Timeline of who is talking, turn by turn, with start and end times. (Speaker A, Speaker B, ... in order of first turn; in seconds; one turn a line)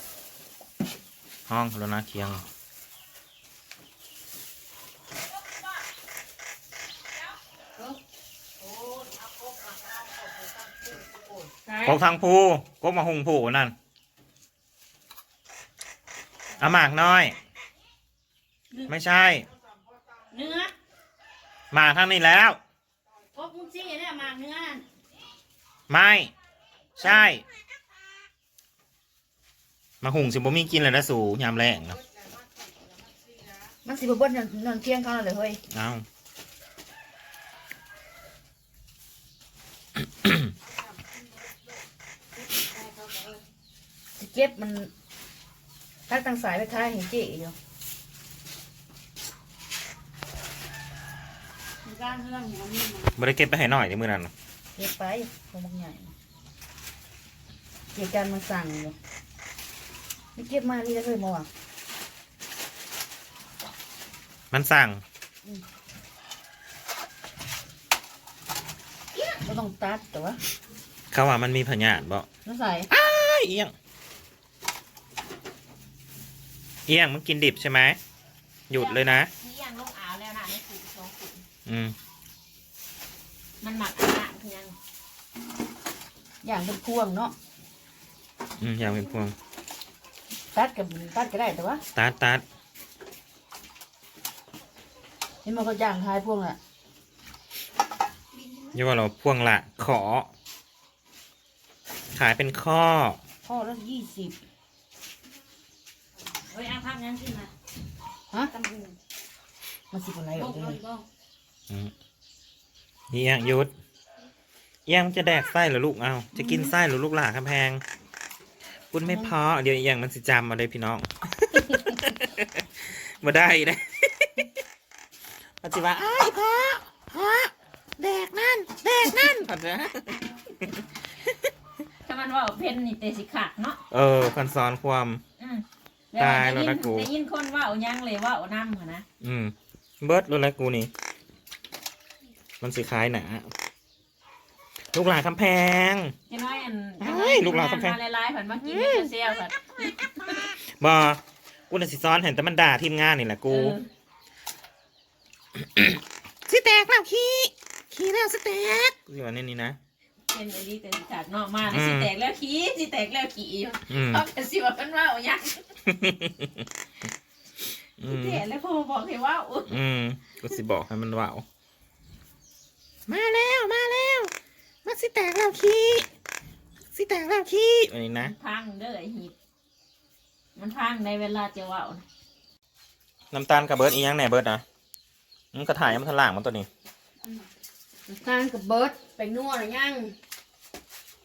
Speaker A: 1.5-2.5
Speaker A: 11.8-13.7
Speaker A: 16.6-17.4
Speaker A: 18.9-19.5
Speaker B: 20.4-20.7
Speaker A: 21.7-22.6
Speaker B: 23.3-24.8
Speaker A: 25.9-26.3
Speaker A: 27.0-27.4
Speaker A: 30.0-32.0
Speaker B: 33.8-35.6
Speaker A: 35.7-36.0
Speaker C: 42.7-43.3
Speaker B: 44.2-44.9
Speaker B: 46.1-47.5
Speaker B: 51.8-53.1
Speaker A: 53.1-54.3
Speaker B: 54.8-56.1
Speaker B: 57.9-58.9
Speaker B: 60.4-61.5
Speaker A: 64.5-65.0
Speaker B: 69.2-70.4
Speaker A: 71.1-72.3
Speaker B: 72.4-72.9
Speaker A: 72.9-73.7
Speaker A: 76.9-78.0
Speaker A: 78.7-79.3
Speaker C: 78.7-81.4
Speaker A: 81.7-81.9
Speaker C: 83.6-84.7
Speaker B: 86.4-87.3
Speaker A: 88.6-89.3
Speaker B: 90.5-91.8
Speaker A: 91.9-92.4
Speaker B: 95.4-96.6
Speaker C: 98.4-98.7
Speaker A: 98.7-100.3
Speaker A: 102.1-103.2
Speaker B: 103.4-104.4
Speaker C: 106.5-107.5
Speaker C: 108.5-108.9
Speaker B: 109.9-110.8
Speaker C: 110.4-111.0
Speaker A: 113.1-113.7
Speaker A: 114.9-117.8
Speaker B: 116.4-116.7
Speaker A: 118.9-124.5
Speaker B: 119.0-119.3
Speaker A: 125.6-131.3
Speaker C: 132.1-133.8
Speaker A: 133.9-135.2
Speaker C: 135.4-139.1
Speaker A: 136.2-137.1
Speaker A: 139.2-140.9
Speaker A: 142.6-143.5
Speaker A: 144.9-146.1
Speaker C: 146.3-150.5
Speaker A: 147.0-148.0
Speaker A: 148.6-149.1
Speaker A: 150.6-153.8
Speaker C: 153.5-153.9
Speaker A: 155.5-159.8
Speaker C: 160.3-165.6
Speaker A: 161.7-162.1
Speaker A: 163.9-164.2
Speaker A: 165.8-166.7
Speaker A: 168.0-168.4
Speaker C: 168.0-169.7
Speaker A: 169.7-171.4
Speaker A: 173.1-174.3
Speaker A: 174.8-176.1
Speaker A: 176.9-178.3
Speaker C: 178.2-179.3
Speaker C: 180.6-182.0
Speaker A: 183.3-184.6
Speaker A: 185.5-186.7
Speaker B: 188.1-190.1